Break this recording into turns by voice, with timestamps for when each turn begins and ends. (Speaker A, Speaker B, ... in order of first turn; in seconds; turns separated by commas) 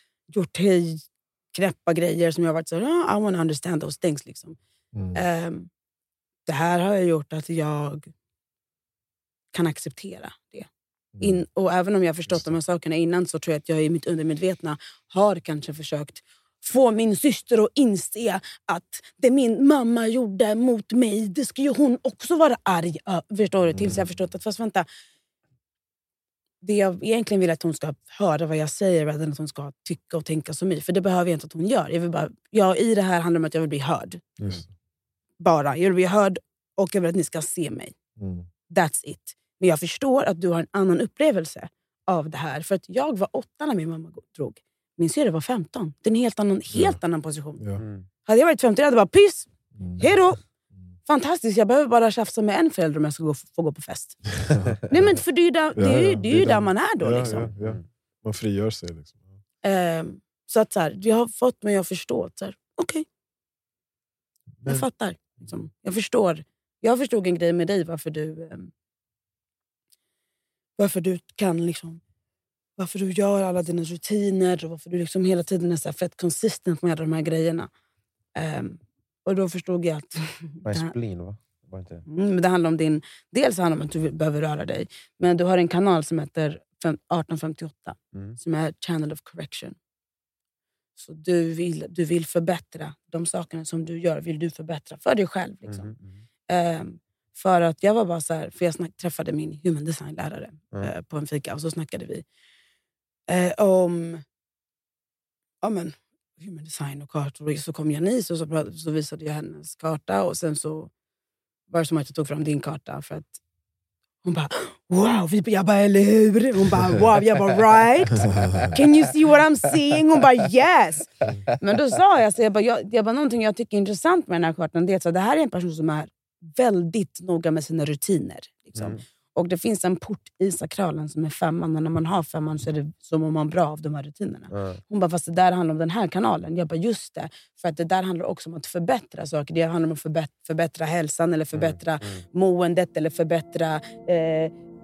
Speaker A: 0.3-4.6, Speaker B: 4.9-5.2, Speaker A: 5.1-5.7, Speaker A: 6.5-8.1, Speaker A: 9.5-10.7, Speaker B: 11.2-11.4, Speaker A: 11.2-24.9, Speaker A: 26.6-34.4, Speaker B: 34.4-34.7, Speaker A: 35.4-37.9, Speaker B: 38.2-38.5, Speaker A: 38.7-47.6, Speaker B: 47.6-47.8, Speaker C: 47.8-48.1, Speaker A: 48.2-50.4, Speaker B: 49.8-50.1, Speaker A: 51.0-54.3, Speaker B: 54.5-54.8, Speaker A: 54.8-57.5, Speaker B: 55.8-59.2, Speaker C: 57.2-57.8, Speaker A: 59.6-63.0, Speaker B: 64.6-64.9, Speaker A: 64.7-68.7, Speaker A: 70.8-72.0, Speaker A: 72.8-77.7, Speaker A: 78.3-80.9, Speaker C: 80.6-82.0, Speaker A: 82.0-89.8, Speaker A: 91.0-95.9, Speaker C: 95.7-96.2, Speaker A: 96.5-102.2, Speaker A: 103.3-104.2, Speaker A: 105.6-110.9, Speaker A: 111.7-113.4, Speaker A: 114.2-144.5, Speaker C: 118.2-118.9, Speaker C: 134.5-134.8, Speaker C: 141.5-142.2